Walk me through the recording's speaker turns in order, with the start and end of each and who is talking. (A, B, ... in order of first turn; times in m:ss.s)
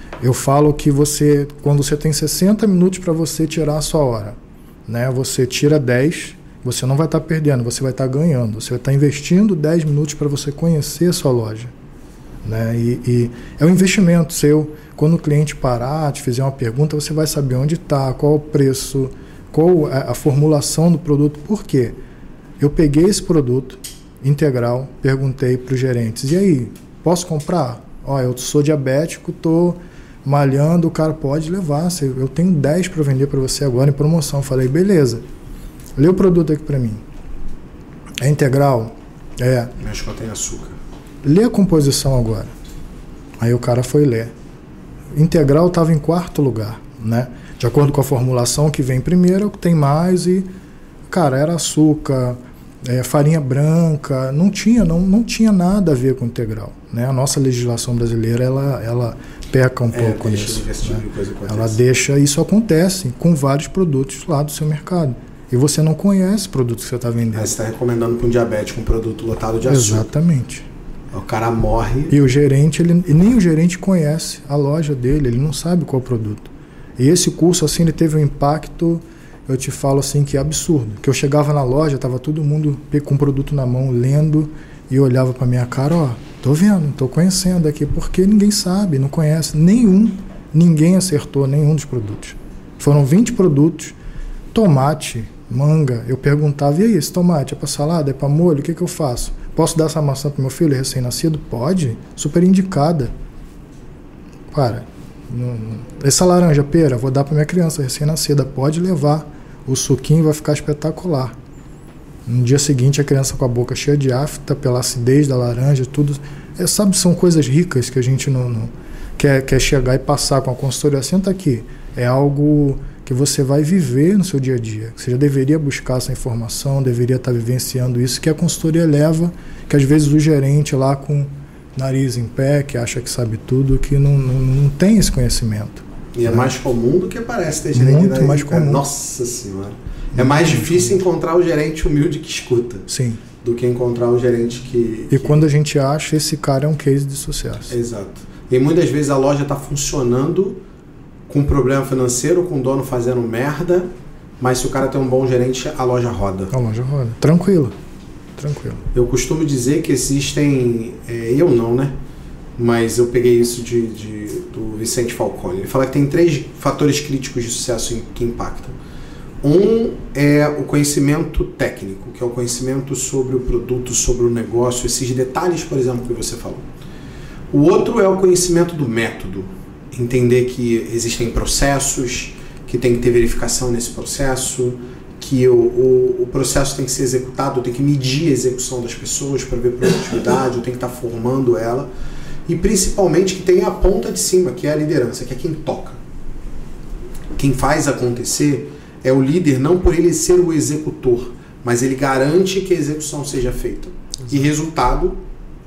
0:00.2-0:11.7 A
0:12.4-0:22.0 A
0:22.6-0:35.2 A
0:36.0-0:37.0 A
0:38.2-0:39.7 A
0:39.8-0:40.8 B
0:41.2-0:42.5 A
0:43.4-0:44.3 A
0:45.1-0:50.5 A
0:51.1-1:07.5 A
0:59.9-1:01.8 B
1:07.3-1:10.1 B
1:09.6-1:10.6 A
1:11.1-1:12.2 B
1:12.1-1:34.0 A
1:34.5-1:43.1 A
1:44.5-1:51.4 A
1:52.2-2:16.5 A
2:16.1-2:22.9 B
2:17.7-2:18.8 A
2:20.1-2:21.0 A
2:22.9-2:23.2 A
2:23.4-2:25.4 B
2:25.1-2:27.7 A
2:27.7-2:30.6 B
2:31.3-2:36.5 B
2:36.5-2:37.7 A
2:38.4-2:38.8 A
2:38.9-2:41.9 B
2:42.6-2:48.8 B
2:49.4-2:56.7 B
2:57.5-3:11.9 B
3:12.5-3:16.0 B
3:17.4-3:25.2 B